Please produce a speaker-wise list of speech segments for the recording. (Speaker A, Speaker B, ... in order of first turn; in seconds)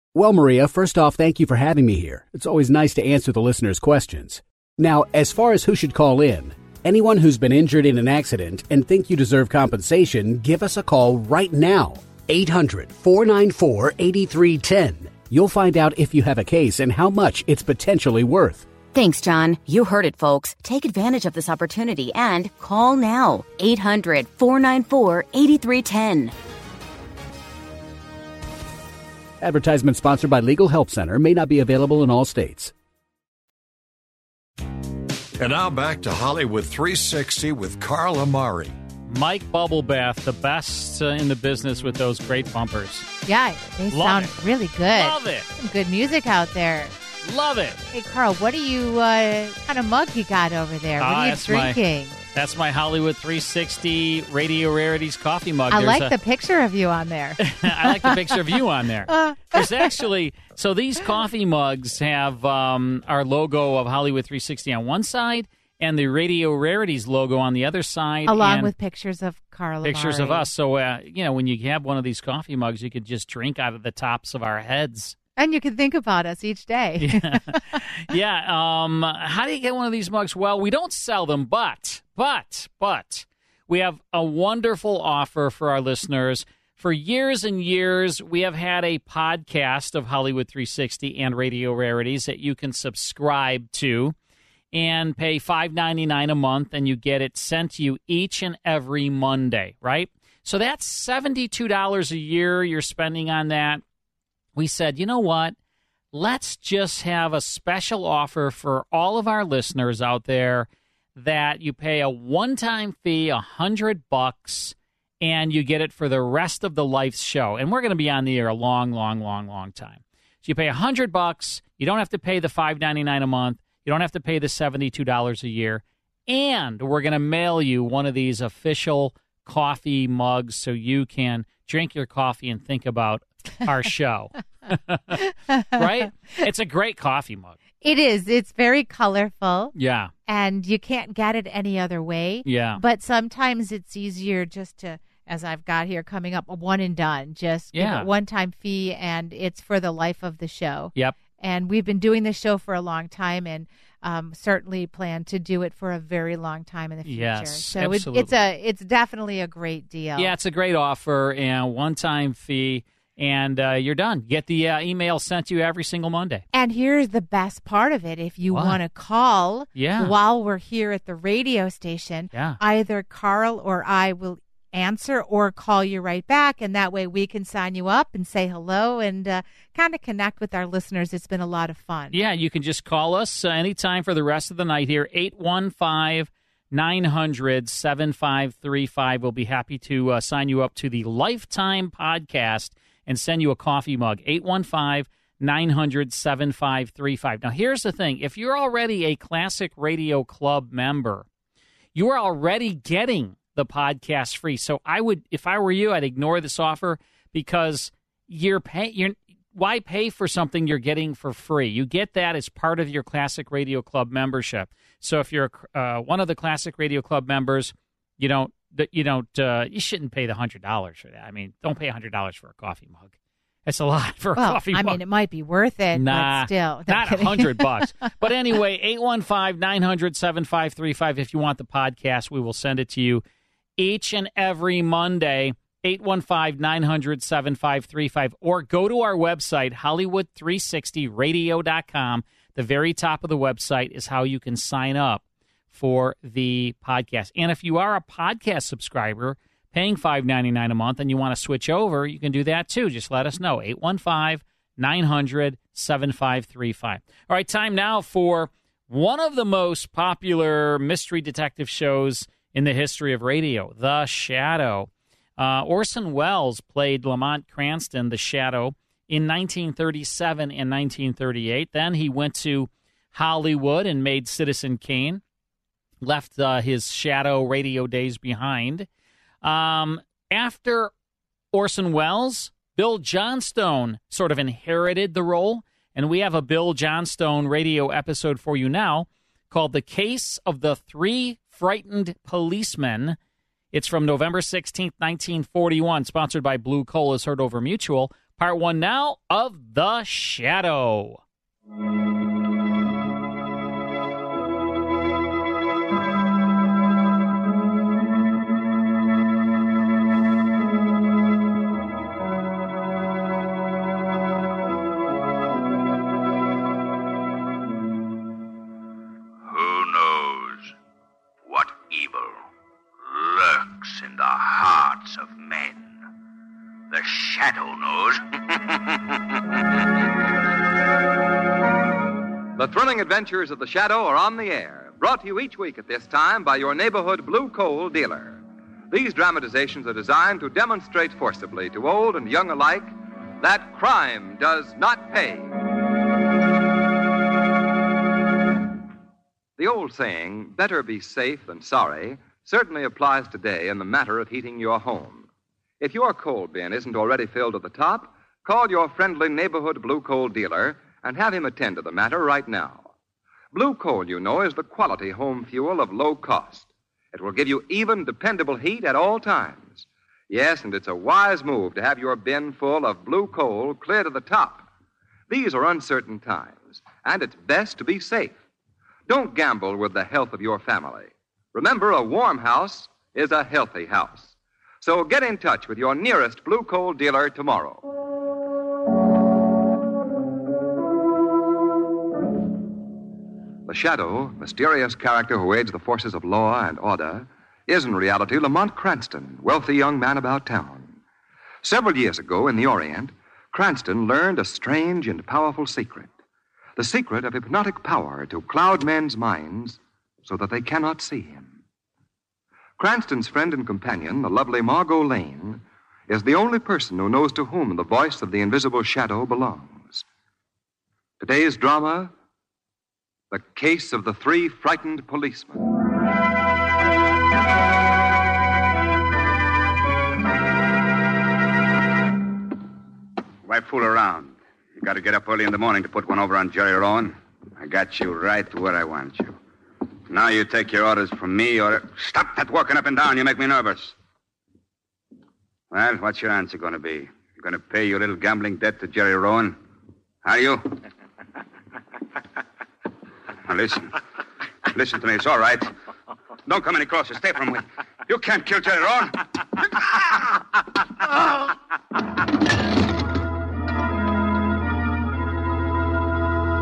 Speaker A: 0.1-18.7, 29.4-32.7
Speaker B: 18.9-26.3
Speaker C: 35.4-38.7
Speaker D: 39.1-43.1, 43.9-44.3, 44.9-45.5, 47.2-47.8, 51.0-51.8, 52.3-56.1, 57.4-68.7, 69.8-75.2, 77.0-94.1, 94.7-103.8, 104.5-105.5, 106.1-135.2, 135.8-137.6, 139.7-140.1, 142.4-142.8, 147.7-148.1, 157.1-158.4, 160.2-166.4, 168.5-168.8, 169.7-170.1, 172.3-172.6, 182.1-201.2, 201.9-223.1, 223.7-225.0, 225.9-233.2, 233.8-275.2, 276.0-278.9, 279.4-280.9, 281.5-293.2, 293.7-301.2
Speaker E: 43.2-46.9, 47.9-52.2, 55.7-58.5, 59.1-59.9, 68.2-70.5, 75.4-77.8, 135.5-136.0, 137.8-139.7, 140.3-160.3, 166.5-182.2, 224.3-227.9
Speaker F: 319.5-320.7, 321.5-322.4, 323.1-325.8, 326.9-328.2
Speaker G: 332.6-345.5, 349.6-355.3, 355.8-362.9, 363.5-374.7, 375.3-378.4, 379.1-387.8, 393.6-401.0, 401.6-406.1, 406.8-411.6, 412.8-420.0, 421.2-422.1, 423.3-425.6
Speaker H: 433.4-439.4, 440.1-443.9, 445.7-449.6, 450.2-450.7, 453.4-453.9, 454.7-455.7, 456.4-459.1